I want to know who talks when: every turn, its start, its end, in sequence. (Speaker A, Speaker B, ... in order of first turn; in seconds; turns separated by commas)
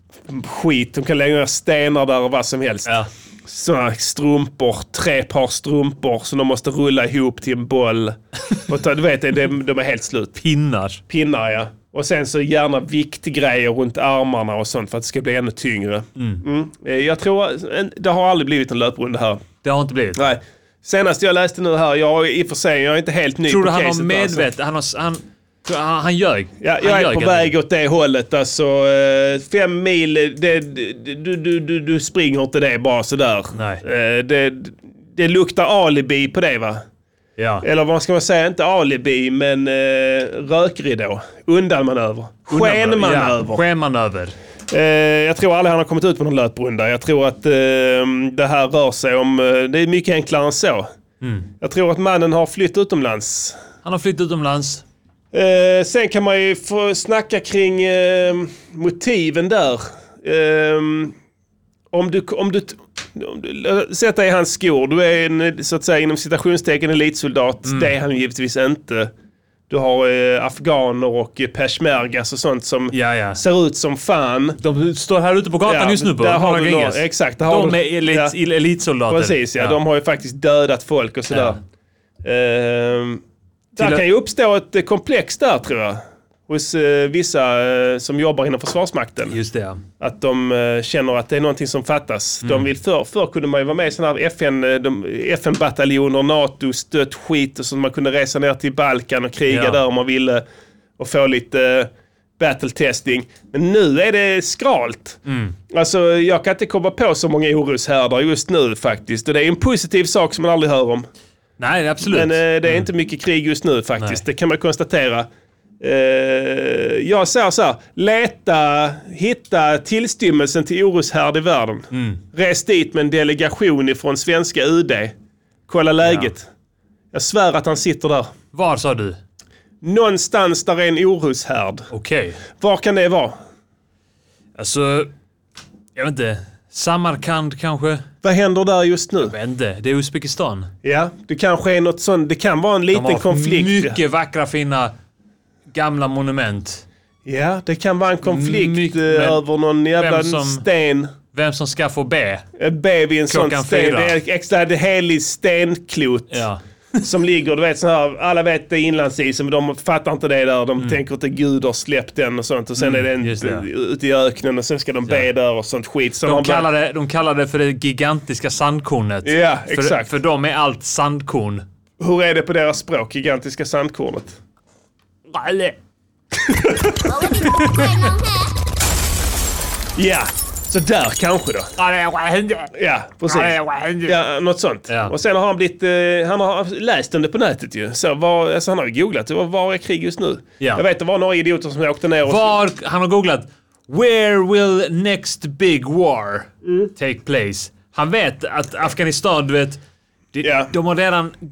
Speaker A: 0.3-10.3, Speaker B: 10.3-11.0, Speaker A: 11.1-19.4, Speaker B: 16.2-16.4, Speaker B: 19.6-20.4, Speaker A: 20.1-24.5, Speaker B: 23.5-27.5, Speaker A: 26.6-36.8, Speaker B: 33.5-33.8, Speaker B: 37.4-37.6, Speaker A: 37.6-43.6, Speaker B: 42.5-44.3, Speaker A: 44.7-50.9, Speaker B: 51.2-51.5, Speaker A: 51.6-53.6, Speaker B: 53.8-54.8, Speaker A: 55.3-61.1, Speaker A: 61.9-69.1, Speaker B: 67.6-67.9, Speaker A: 69.7-74.6, Speaker B: 72.9-73.4, Speaker B: 74.6-79.8, Speaker A: 75.7-78.3, Speaker A: 79.1-81.6, Speaker B: 81.3-81.6, Speaker A: 82.2-83.2, Speaker A: 83.7-89.4, Speaker B: 83.8-84.0, Speaker B: 89.3-89.8, Speaker A: 90.0-100.4, Speaker B: 92.4-92.7, Speaker B: 99.5-99.8, Speaker A: 101.0-111.0, Speaker B: 105.2-105.5, Speaker B: 111.6-112.9, Speaker A: 112.0-115.3, Speaker A: 115.8-125.1, Speaker B: 121.9-122.2, Speaker A: 125.7-126.5, Speaker B: 126.0-126.3, Speaker A: 127.1-128.3, Speaker B: 128.5-129.2, Speaker A: 129.8-131.9, Speaker B: 131.9-132.4, Speaker A: 132.6-133.3, Speaker B: 134.6-135.1, Speaker B: 135.9-138.0, Speaker A: 138.2-139.3, Speaker B: 139.2-140.7, Speaker A: 140.8-144.0, Speaker B: 142.9-144.9, Speaker B: 145.7-146.8, Speaker A: 147.2-151.1, Speaker B: 148.2-150.6, Speaker B: 151.3-152.4, Speaker A: 152.6-156.5, Speaker B: 153.3-154.2, Speaker B: 156.3-156.6, Speaker A: 157.0-166.7, Speaker B: 162.8-163.6, Speaker B: 166.2-171.6, Speaker A: 169.2-170.1, Speaker A: 172.0-174.4, Speaker B: 175.3-175.8, Speaker A: 176.6-177.5, Speaker B: 177.2-177.8, Speaker A: 179.9-181.7, Speaker B: 181.8-182.7, Speaker A: 182.7-192.6, Speaker B: 183.2-184.2, Speaker B: 184.9-185.1, Speaker B: 192.2-199.8, Speaker B: 200.3-201.3, Speaker A: 200.4-200.7